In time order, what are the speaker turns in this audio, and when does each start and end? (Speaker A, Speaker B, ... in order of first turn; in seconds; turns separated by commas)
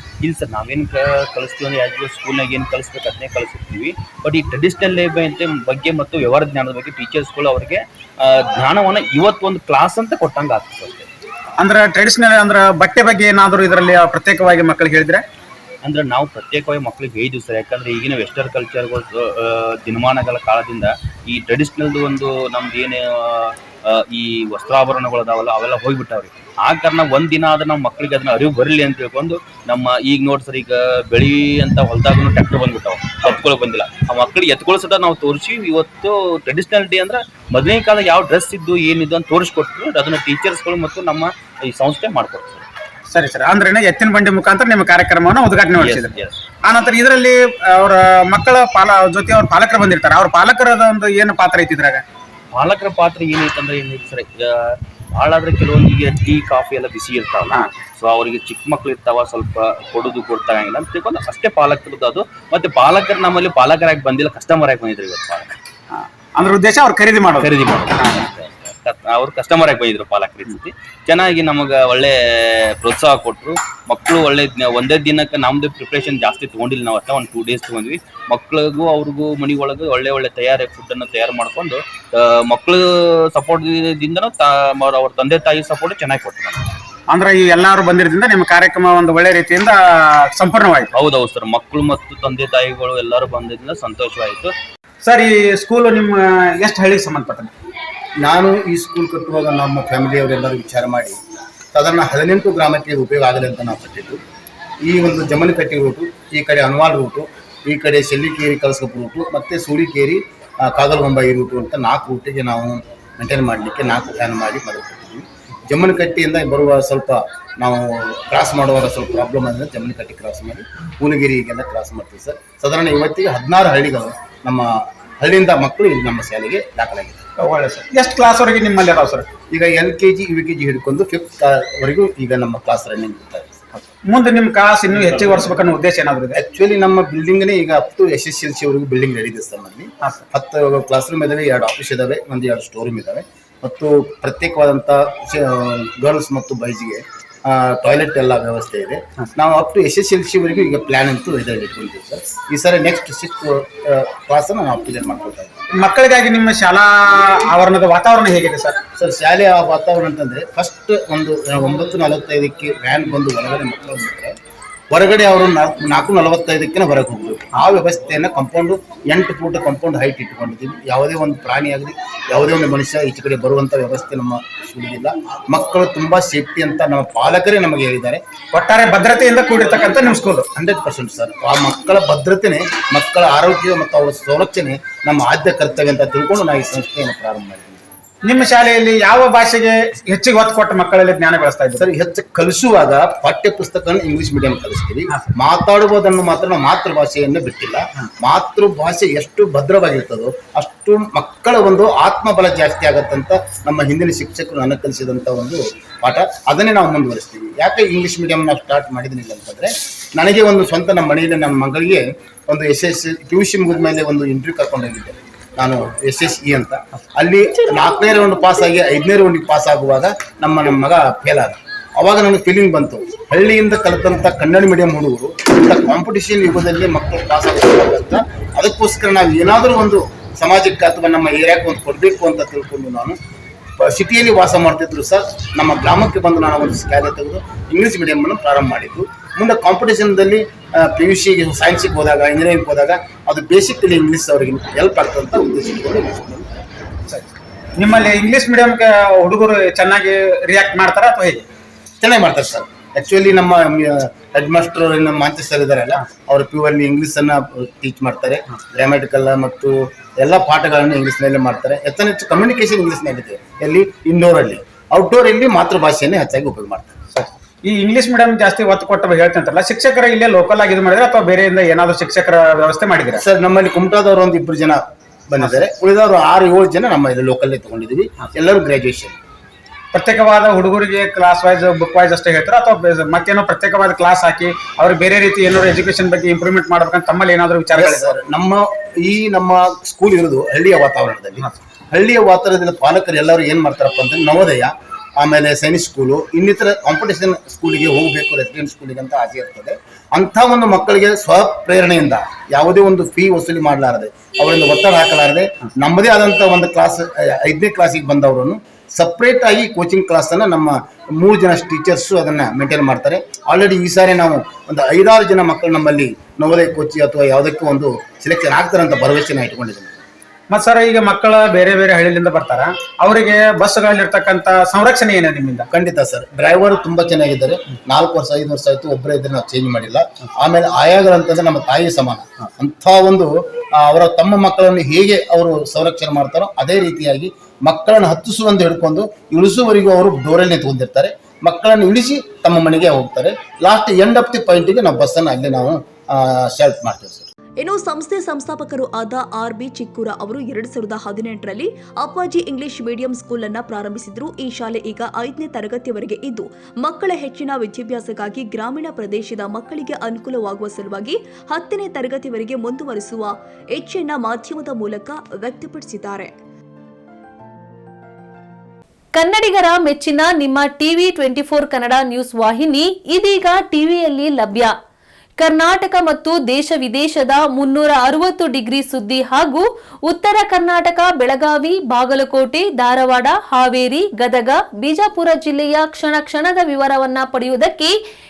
Speaker A: 0.2-11.1, Speaker B: 11.6-15.2, Speaker A: 15.8-42.6, Speaker B: 43.1-52.0, Speaker A: 45.8-46.4, Speaker A: 52.5-65.5, Speaker B: 65.9-68.3, Speaker A: 67.4-86.7, Speaker B: 87.1-89.8, Speaker B: 90.3-90.9, Speaker A: 90.9-94.5, Speaker B: 95.0-97.5, Speaker C: 98.2-101.2, Speaker C: 101.7-104.2, Speaker C: 104.8-127.2, Speaker B: 127.4-129.3, Speaker C: 129.5-133.5, Speaker B: 134.0-136.4, Speaker C: 136.3-155.6, Speaker B: 155.8-158.8, Speaker C: 159.0-164.3, Speaker C: 164.9-178.2, Speaker B: 178.5-180.5, Speaker C: 180.6-187.8, Speaker B: 188.2-191.8, Speaker C: 191.8-233.2, Speaker C: 233.8-246.5, Speaker B: 247.1-251.4, Speaker C: 252.0-266.9, Speaker B: 267.1-273.2, Speaker C: 273.1-279.2, Speaker B: 279.9-288.1, Speaker C: 287.7-320.0, Speaker B: 320.5-325.7, Speaker C: 325.7-347.3, Speaker D: 347.6-366.3, Speaker E: 369.1-374.7, Speaker E: 375.4-387.9